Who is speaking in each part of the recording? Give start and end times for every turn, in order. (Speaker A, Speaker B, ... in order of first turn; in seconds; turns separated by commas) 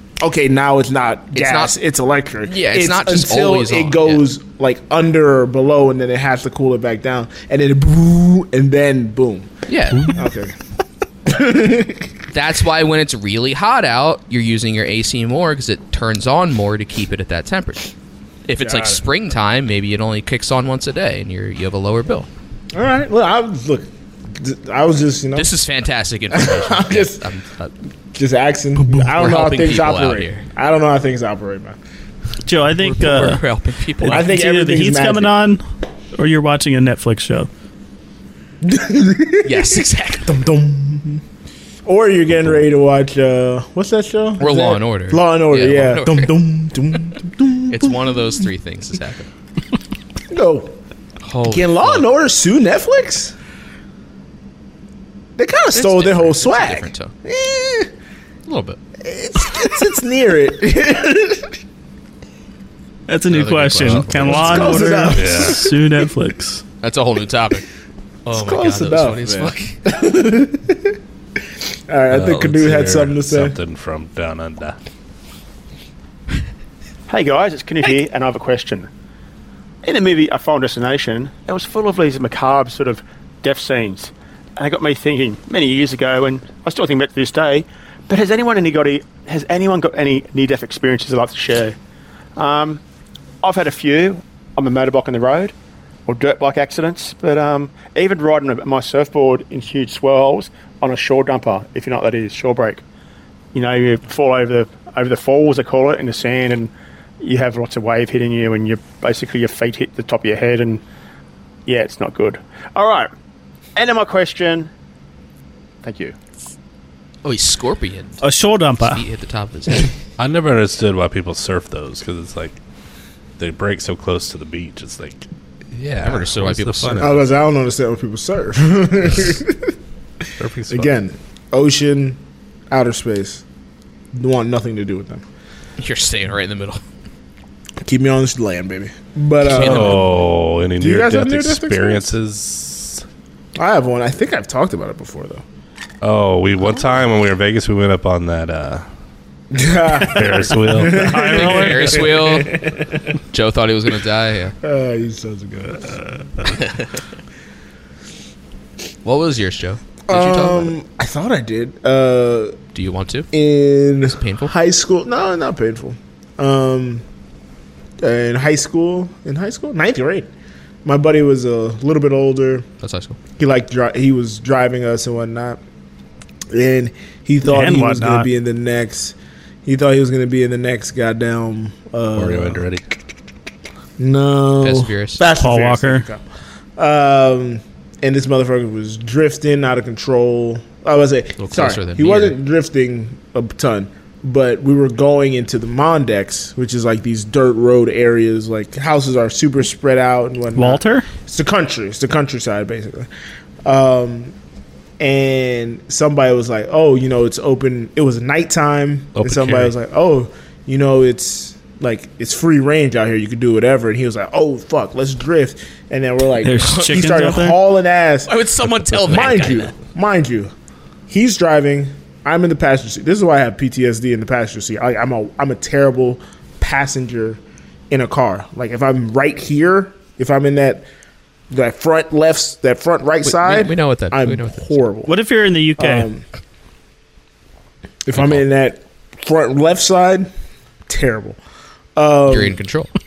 Speaker A: 0.2-9.5, Speaker B: 1.4-1.8, Speaker B: 2.5-4.2, Speaker B: 9.7-10.1, Speaker A: 10.1-10.6, Speaker A: 11.3-12.1, Speaker B: 12.3-17.9, Speaker B: 18.5-22.3, Speaker A: 18.6-19.0, Speaker A: 22.7-25.5, Speaker B: 25.4-27.7, Speaker A: 26.3-27.2, Speaker A: 28.1-31.8, Speaker B: 29.0-30.4, Speaker C: 32.5-33.4, Speaker B: 32.8-34.3, Speaker C: 34.0-35.6, Speaker A: 34.1-35.4, Speaker C: 36.1-37.5, Speaker A: 38.6-41.2, Speaker B: 39.5-40.3, Speaker A: 41.9-48.4, Speaker B: 44.4-46.3, Speaker B: 47.7-49.3, Speaker A: 50.3-50.8, Speaker B: 51.2-52.1, Speaker A: 51.5-53.4, Speaker A: 55.4-57.9, Speaker B: 55.7-57.1, Speaker B: 58.5-58.8, Speaker A: 59.0-61.6, Speaker C: 63.1-66.6, Speaker B: 63.3-64.7, Speaker D: 63.9-64.4, Speaker A: 64.3-66.0, Speaker D: 65.1-65.6, Speaker B: 66.8-67.7, Speaker B: 68.2-69.8, Speaker A: 68.3-71.0, Speaker A: 71.9-73.6, Speaker D: 72.1-74.8, Speaker E: 77.1-78.9, Speaker E: 79.8-91.8, Speaker E: 92.4-92.8, Speaker E: 93.4-95.5, Speaker E: 96.1-102.8, Speaker E: 103.5-110.8, Speaker E: 111.7-113.1, Speaker E: 113.8-114.7, Speaker E: 115.8-116.2, Speaker B: 117.2-118.2, Speaker C: 118.2-119.0, Speaker B: 118.8-119.9, Speaker D: 120.2-122.6, Speaker D: 123.4-127.2, Speaker B: 126.0-127.2, Speaker A: 127.0-129.7, Speaker D: 130.4-130.9, Speaker A: 130.7-133.4, Speaker A: 134.1-135.2, Speaker B: 135.8-136.8, Speaker A: 137.8-140.2, Speaker B: 139.5-140.1, Speaker D: 139.5-143.0, Speaker A: 140.8-142.1, Speaker A: 143.6-145.4, Speaker D: 146.0-148.8, Speaker A: 149.5-153.1, Speaker D: 150.0-151.2, Speaker C: 151.0-152.1, Speaker B: 151.2-152.5, Speaker B: 153.3-154.6, Speaker A: 154.6-156.5, Speaker B: 156.5-157.0, Speaker B: 159.1-160.8, Speaker A: 160.1-162.6, Speaker B: 162.7-163.3, Speaker A: 163.3-167.1, Speaker B: 164.1-164.5, Speaker A: 168.0-170.3, Speaker A: 170.8-172.7, Speaker B: 172.8-173.2, Speaker A: 173.4-175.6, Speaker A: 176.5-182.7, Speaker C: 177.4-178.3, Speaker D: 182.2-182.8, Speaker A: 184.0-186.2, Speaker B: 184.6-185.2, Speaker C: 185.2-186.1, Speaker A: 186.8-203.1, Speaker B: 191.4-192.4, Speaker C: 200.6-201.1, Speaker A: 203.7-204.3, Speaker A: 205.0-218.3, Speaker D: 209.2-209.7, Speaker C: 216.4-217.6, Speaker B: 216.6-216.9, Speaker B: 218.3-219.7, Speaker A: 219.0-220.5, Speaker A: 221.1-230.9, Speaker A: 231.5-235.2, Speaker B: 233.2-234.8, Speaker C: 235.1-236.1, Speaker A: 235.8-236.2, Speaker A: 238.1-240.3, Speaker B: 238.1-238.4, Speaker A: 240.9-241.4, Speaker A: 242.0-242.6, Speaker B: 242.3-242.9